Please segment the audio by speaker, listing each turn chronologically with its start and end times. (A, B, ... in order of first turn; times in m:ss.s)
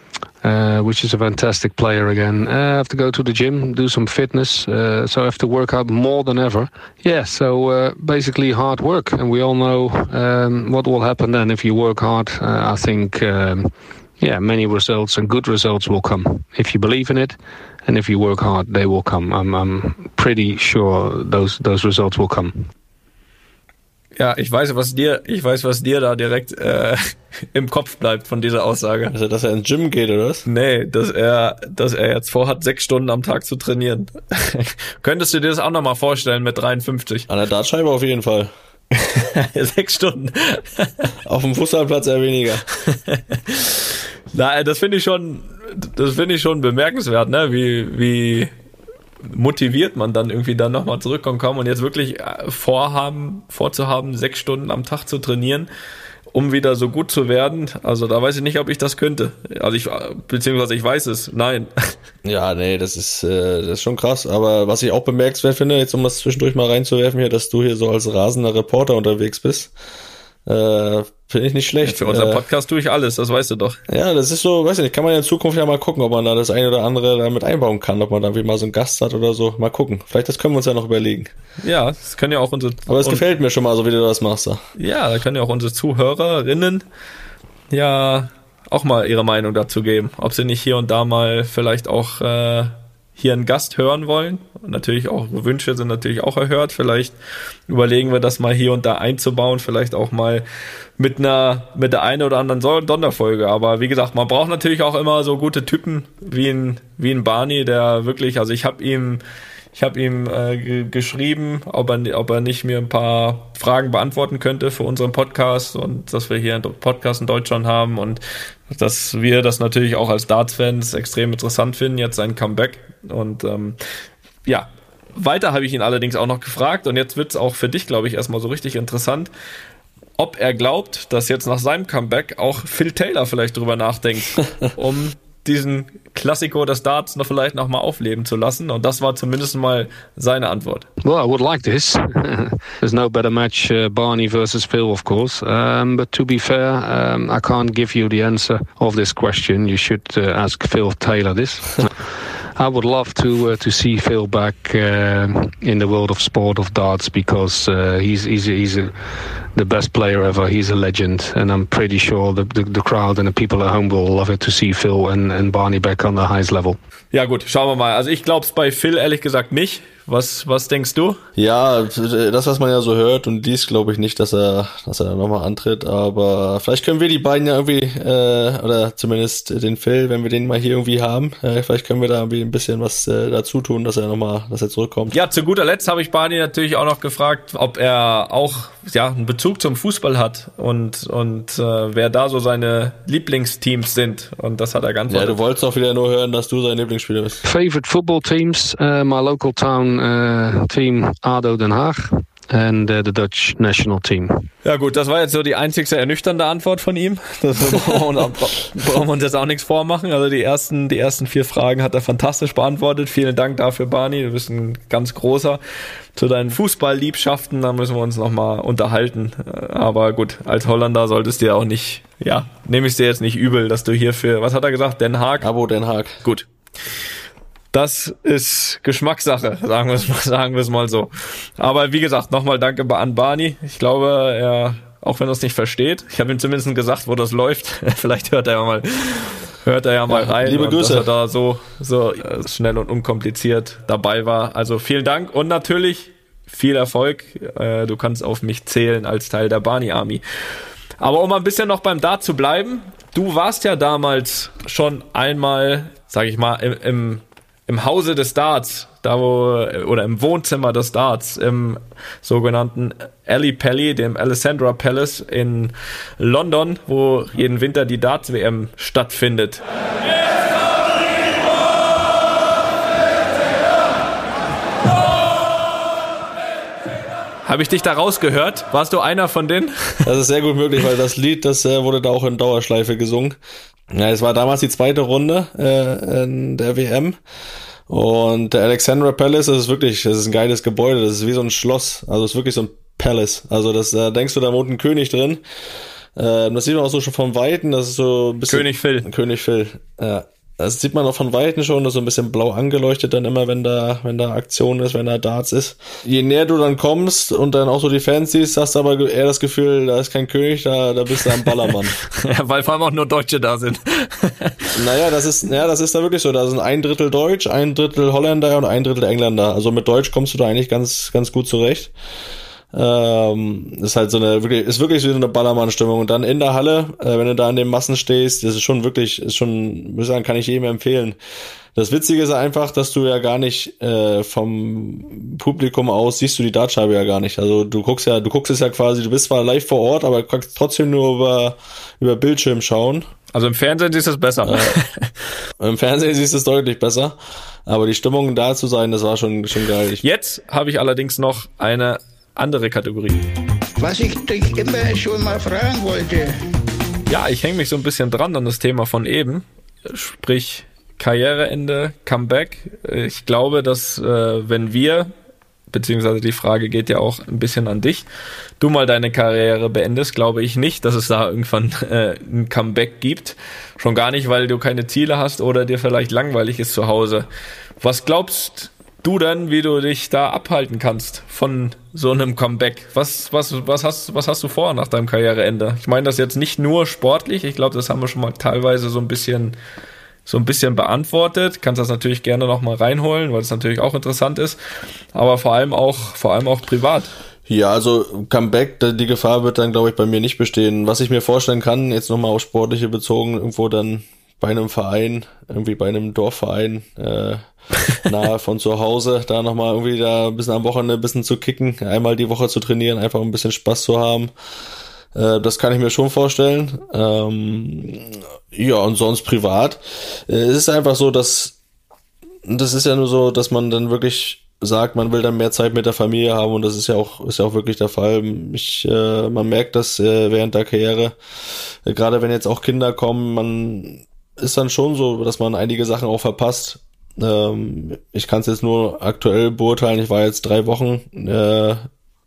0:00.4-0:22.7 A
0:24.2-0:29.1 B
0:29.1-0:30.4 C
0:30.4-0:37.3 B
0:37.3-0:38.5 C
0:38.9-0:41.1 B
0:41.2-0:42.6 C
0:42.8-0:48.5 B
0:49.2-0:55.7 B
0:56.3-1:01.9 B
1:02.2-1:09.7 C
1:10.4-1:12.4 C
1:11.8-1:13.8 B
1:13.9-1:21.3 C
1:21.6-1:23.2 B
1:22.9-1:24.6 C
1:24.8-1:26.8 B
1:27.7-1:37.2 B
1:37.7-1:40.4 B
1:41.0-1:49.2 B
1:49.7-2:03.8 B
2:04.4-2:09.3 B
2:10.2-2:20.9 B
2:21.0-2:38.9 A
2:39.5-2:46.8 A
2:47.1-2:51.2 B
2:51.4-3:05.2 C
3:05.1-3:15.4 B
3:15.1-3:17.4 C
3:17.4-3:24.5 A
3:24.6-3:35.6 B
3:36.2-3:45.5 B
3:45.4-3:46.2 C
3:47.7-4:10.2 B
4:00.1-4:01.1 C
4:11.0-4:29.6 B
4:37.4-4:40.1 B
4:40.0-4:43.4 C
4:43.9-4:47.2 C
4:47.9-4:55.4 C
4:56.2-5:12.0 C
4:58.5-4:59.0 B
5:12.1-5:14.8 B
5:14.7-5:21.9 C
5:22.7-5:31.2 C
5:31.7-5:43.1 C
5:43.3-5:45.1 B
5:44.4-5:44.8 C
5:45.6-5:47.1 C
5:47.6-5:50.0 C
5:50.0-5:53.2 B
5:53.8-5:56.4 D
5:57.1-6:05.1 B
6:05.7-6:08.0 B
6:08.6-6:17.3 B
6:17.8-6:29.6 B
6:30.2-6:34.6 B
6:35.1-6:37.1 B
6:37.5-6:47.4 C
6:47.9-6:54.3 C
6:55.1-7:01.6 C
7:02.4-7:11.1 C
7:11.8-7:21.9 C